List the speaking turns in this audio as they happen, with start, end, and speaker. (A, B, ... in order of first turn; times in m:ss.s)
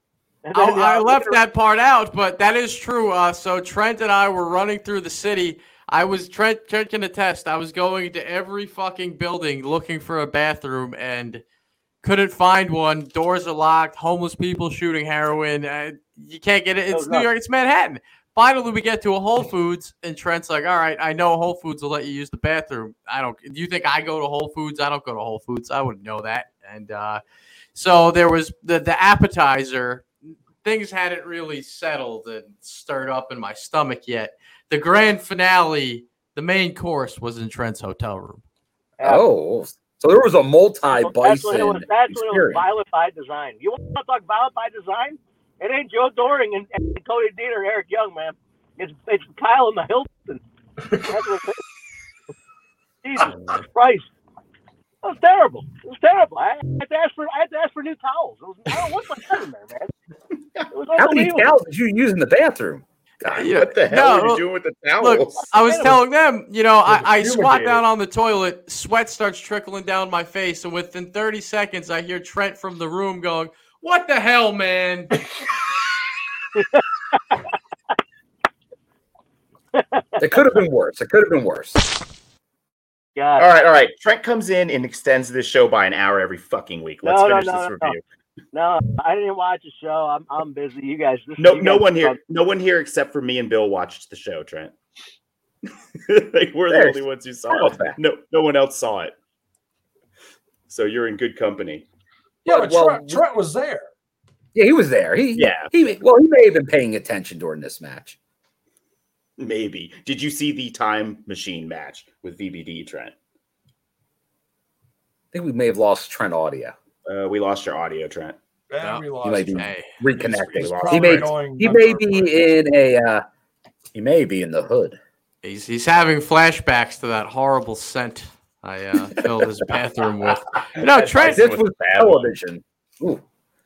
0:00.4-0:01.4 A
0:00.5-0:11.4 B
0:12.0-0:27.2 B
0:16.9-0:17.3 A
0:27.8-0:38.4 B
0:39.0-0:39.3 A
0:39.0-0:42.6 C
0:41.0-0:50.4 A
0:51.0-0:51.6 A
0:53.0-0:54.1 A
0:53.2-0:53.7 B
0:55.0-0:59.9 A
1:00.7-1:01.6 A
1:01.0-1:03.5 C
1:03.3-1:04.4 B
1:03.4-1:05.8 D
1:05.0-1:15.1 B
1:05.5-1:06.0 A
1:06.9-1:07.8 E
1:16.6-1:16.8 A
1:19.7-1:20.5 A
1:20.2-1:21.9 C
1:23.2-1:23.5 A
1:23.4-1:28.0 D
1:27.0-1:28.0 A
1:28.5-1:32.2 A
1:31.4-1:34.8 D
1:36.1-1:39.2 D
1:36.7-1:38.0 C
1:40.7-1:41.9 D
1:42.4-1:43.9 E
1:42.5-1:43.2 C
1:44.6-1:48.2 C
1:45.4-1:45.7 D
1:49.4-1:53.2 D
1:55.3-1:56.8 C
1:57.1-1:58.4 D
1:58.7-2:02.4 E
1:58.8-2:00.0 B
1:59.2-2:03.2 C
2:00.5-2:01.3 D
2:03.9-2:05.0 C
2:05.4-2:11.5 B
2:10.8-2:12.3 D
2:11.2-2:13.2 C